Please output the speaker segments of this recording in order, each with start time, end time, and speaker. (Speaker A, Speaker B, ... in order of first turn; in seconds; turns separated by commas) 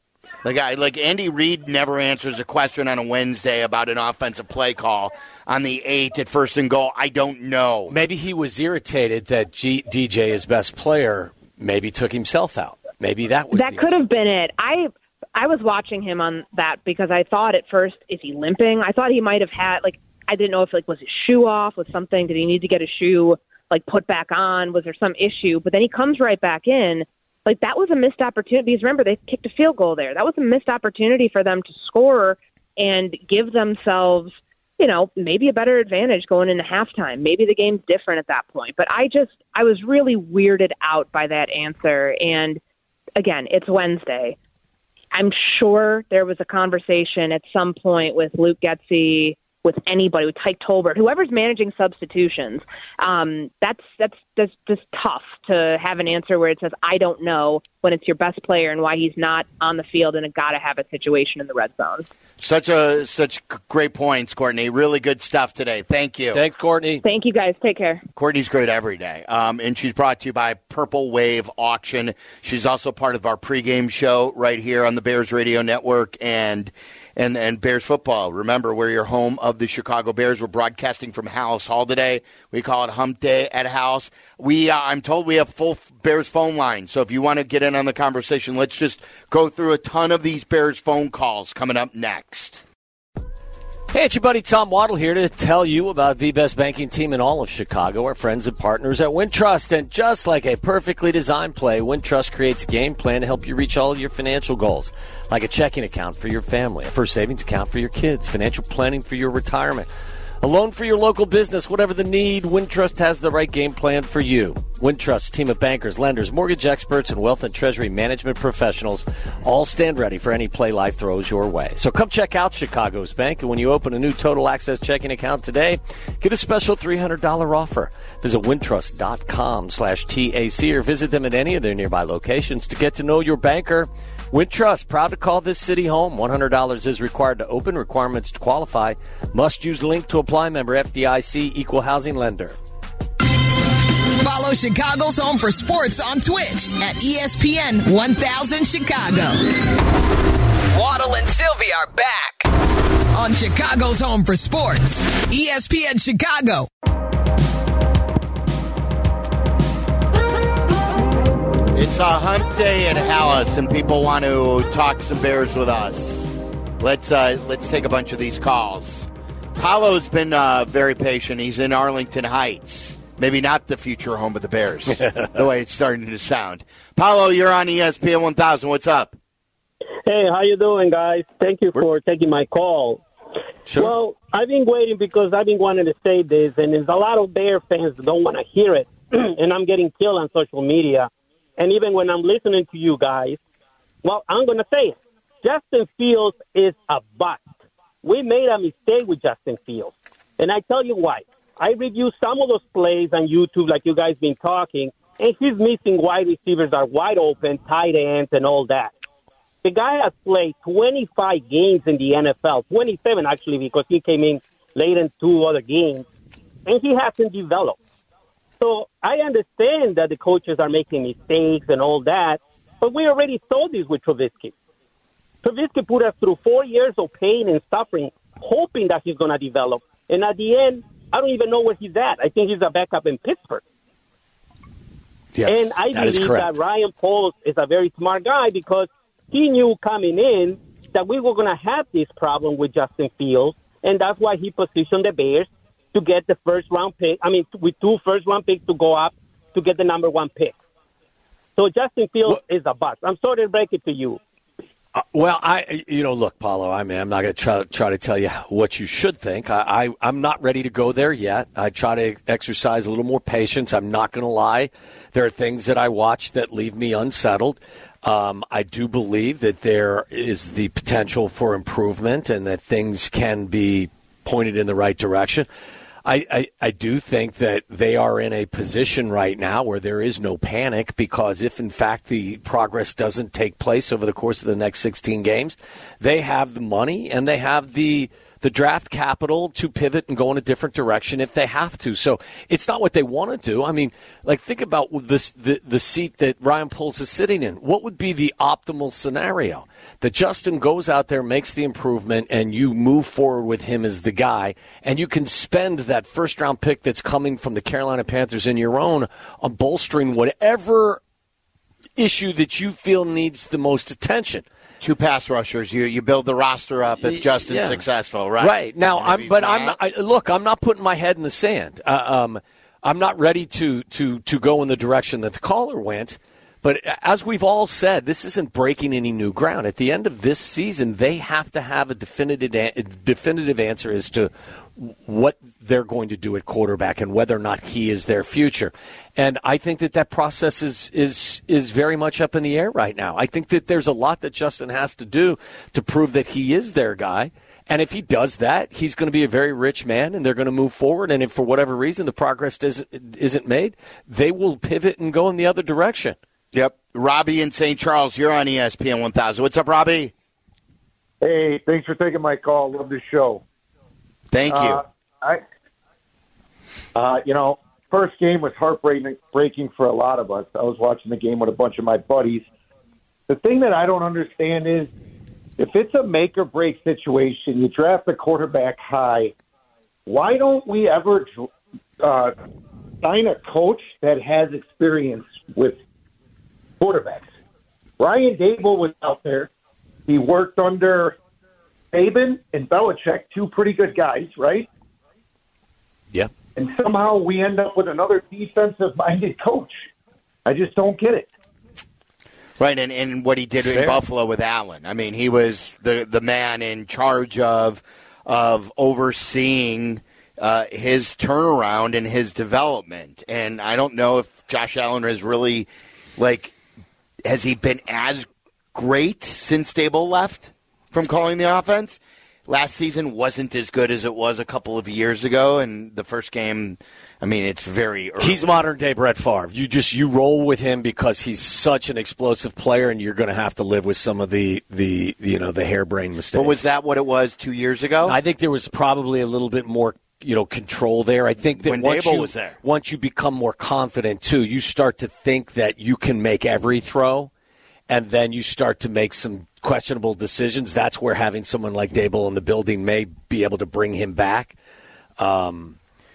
Speaker A: 0.4-8.0, Speaker B: 7.9-13.9, Speaker C: 13.5-42.6, Speaker C: 43.2-44.4, Speaker C: 45.1-62.1, Speaker A: 62.4-66.4, Speaker B: 66.3-67.0, Speaker C: 67.0-68.0, Speaker A: 68.2-92.6, Speaker B: 93.9-109.9, Speaker B: 110.4-142.6, Speaker D: 144.2-149.7, Speaker D: 150.7-152.5, Speaker D: 153.1-156.7, Speaker A: 161.7-179.2, Speaker E: 180.1-183.0, Speaker E: 183.7-193.4, Speaker E: 194.0-197.5, Speaker E: 198.0-208.9, Speaker E: 209.6-216.1, Speaker E: 216.7-217.8, Speaker E: 218.6-224.5, Speaker E: 225.4-233.6, Speaker E: 235.5-250.6, Speaker B: 235.9-236.5, Speaker E: 251.6-254.2, Speaker B: 255.0-275.5, Speaker B: 276.1-311.0, Speaker B: 312.0-314.4, Speaker A: 314.8-319.8, Speaker B: 317.0-317.8, Speaker B: 318.4-356.2, Speaker A: 356.5-360.1, Speaker F: 361.2-363.4, Speaker A: 364.3-364.8, Speaker F: 364.5-365.4, Speaker F: 366.9-372.5, Speaker F: 373.3-374.9, Speaker F: 375.6-379.3, Speaker F: 380.1-382.4, Speaker F: 383.0-385.8, Speaker F: 386.8-387.3, Speaker F: 388.0-389.5, Speaker F: 390.1-391.2, Speaker F: 391.9-394.7, Speaker F: 396.6-399.8, Speaker F: 400.4-401.3, Speaker A: 402.6-416.6, Speaker B: 403.6-404.0, Speaker A: 417.3-428.6, Speaker B: 428.2-436.6, Speaker A: 436.3-438.2, Speaker B: 438.0-447.3, Speaker A: 441.6-442.6, Speaker B: 447.9-454.6, Speaker B: 455.2-455.8